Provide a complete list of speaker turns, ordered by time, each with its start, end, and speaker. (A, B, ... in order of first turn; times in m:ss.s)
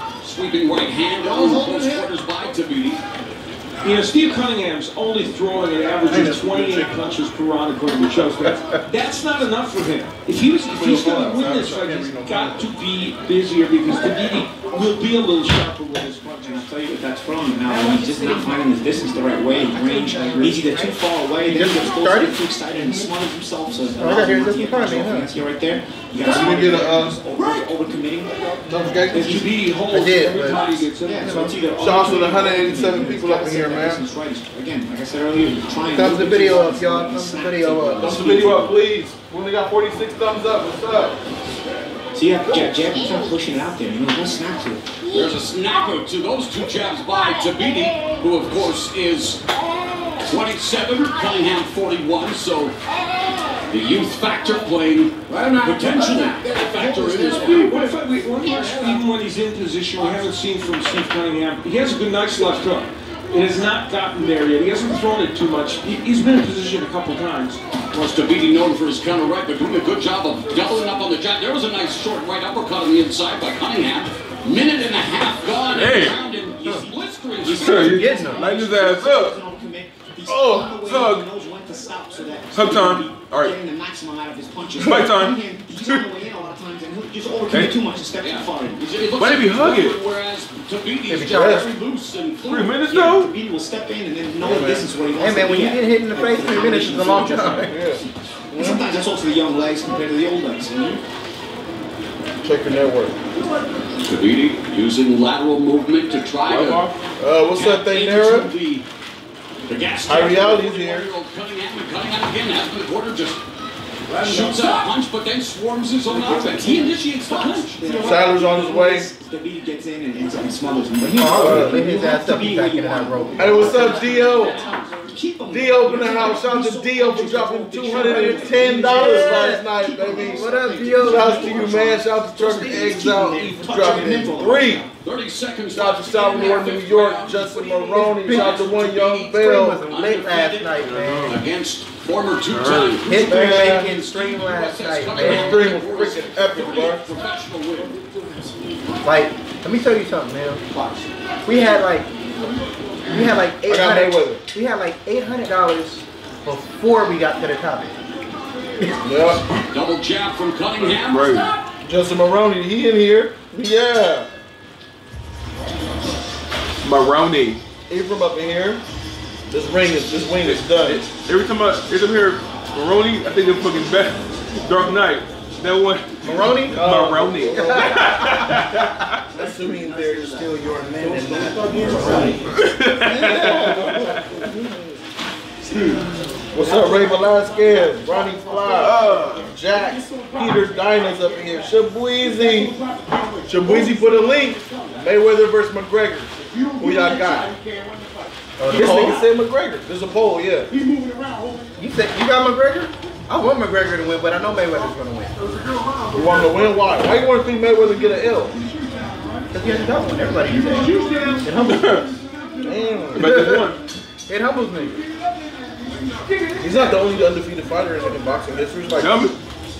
0:00.2-0:03.0 A
0:01.2-0:02.1 B
0:03.8-0:16.6 C
0:06.0-0:07.0 D
0:10.7-0:12.7 D
0:16.5-0:28.6 B
0:18.0-0:18.5 E
0:19.6-0:22.4 E
0:23.9-0:25.3 E
0:26.2-0:27.2 D
0:28.5-0:29.5 D
0:29.1-0:31.5 C
0:29.9-0:30.7 E
0:31.0-0:38.8 B
0:31.2-0:31.5 E
0:31.8-0:34.0 D
0:35.9-0:38.2 E
0:38.0-0:41.2 D
0:42.1-0:45.0 B
0:45.0-0:49.4 A
0:50.2-0:52.8 A
0:53.7-0:57.7 A
0:55.4-0:57.5 B
0:57.3-1:07.6 C
1:07.9-1:18.2 A
1:15.7-1:16.2 F
1:16.5-1:28.9 B
1:17.5-1:19.4 F
1:17.8-1:18.4 E
1:20.2-1:20.8 D
1:20.8-1:21.2 F
1:22.5-1:23.5 F
1:24.8-1:26.0 F
1:27.5-1:27.8 F
1:28.2-1:32.8 A
1:29.2-1:30.0 F
1:31.1-1:31.5 E
1:31.3-1:31.7 D
1:32.5-1:33.3 F
1:32.8-1:37.8 B
1:34.4-1:34.9 D
1:35.2-1:37.8 E
1:37.6-1:38.8 D
1:38.5-1:41.0 B
1:42.4-1:43.2 D
1:44.0-1:46.9 A
1:46.5-1:47.0 F
1:47.2-1:48.5 D
1:47.5-1:48.8 A
1:49.7-1:53.4 A
1:50.0-1:51.1 D
1:54.1-1:54.8 B
1:54.2-1:58.0 A
1:56.0-2:14.8 B
1:58.0-1:59.1 D
2:01.0-2:03.8 E
2:01.3-2:01.8 D
2:03.4-2:04.6 D
2:03.7-2:04.9 A
2:05.5-2:10.5 D
2:08.1-2:11.4 E
2:11.0-2:14.8 D
2:15.0-2:28.0 A
2:15.7-2:19.8 D
2:16.3-2:16.6 B
2:17.9-2:18.7 E
2:19.2-2:21.4 E
2:20.8-2:21.4 F
2:22.5-2:23.0 F
2:23.0-2:25.7 E
2:23.2-2:23.9 D
2:25.2-2:27.0 D
2:27.7-2:28.7 B
2:29.0-2:30.6 E
2:31.4-2:32.1 E
2:33.1-2:37.9 E
2:33.6-2:34.4 D
2:39.0-2:39.4 D
2:39.7-2:41.4 A
2:40.8-2:41.5 F
2:41.8-2:44.3 D
2:46.8-2:47.6 F
2:47.9-2:48.8 D
2:49.5-2:51.0 D
2:50.4-2:59.2 F
2:56.2-2:56.9 E
2:56.7-2:57.9 D
2:57.5-2:58.9 E
2:59.3-3:00.5 B
2:59.3-3:02.4 D
3:00.2-3:02.4 E
3:01.4-3:02.4 B
3:02.5-3:04.4 F
3:03.0-3:04.4 B
3:03.2-3:05.0 D
3:05.6-3:15.1 B
3:06.5-3:12.7 D
3:08.8-3:09.5 F
3:13.5-3:17.5 D
3:16.4-3:19.2 B
3:18.6-3:19.2 E
3:18.7-3:20.7 D
3:20.7-3:21.7 B
3:21.8-3:25.3 E
3:26.1-3:28.5 D
3:26.2-3:27.0 C
3:29.5-3:32.0 E
3:30.6-3:31.4 C
3:31.5-3:32.1 F
3:32.6-3:33.4 D
3:33.1-3:33.8 F
3:33.2-3:33.7 E
3:34.3-3:35.0 E
3:36.2-3:36.9 C
3:36.6-3:39.3 D
3:39.0-3:39.4 F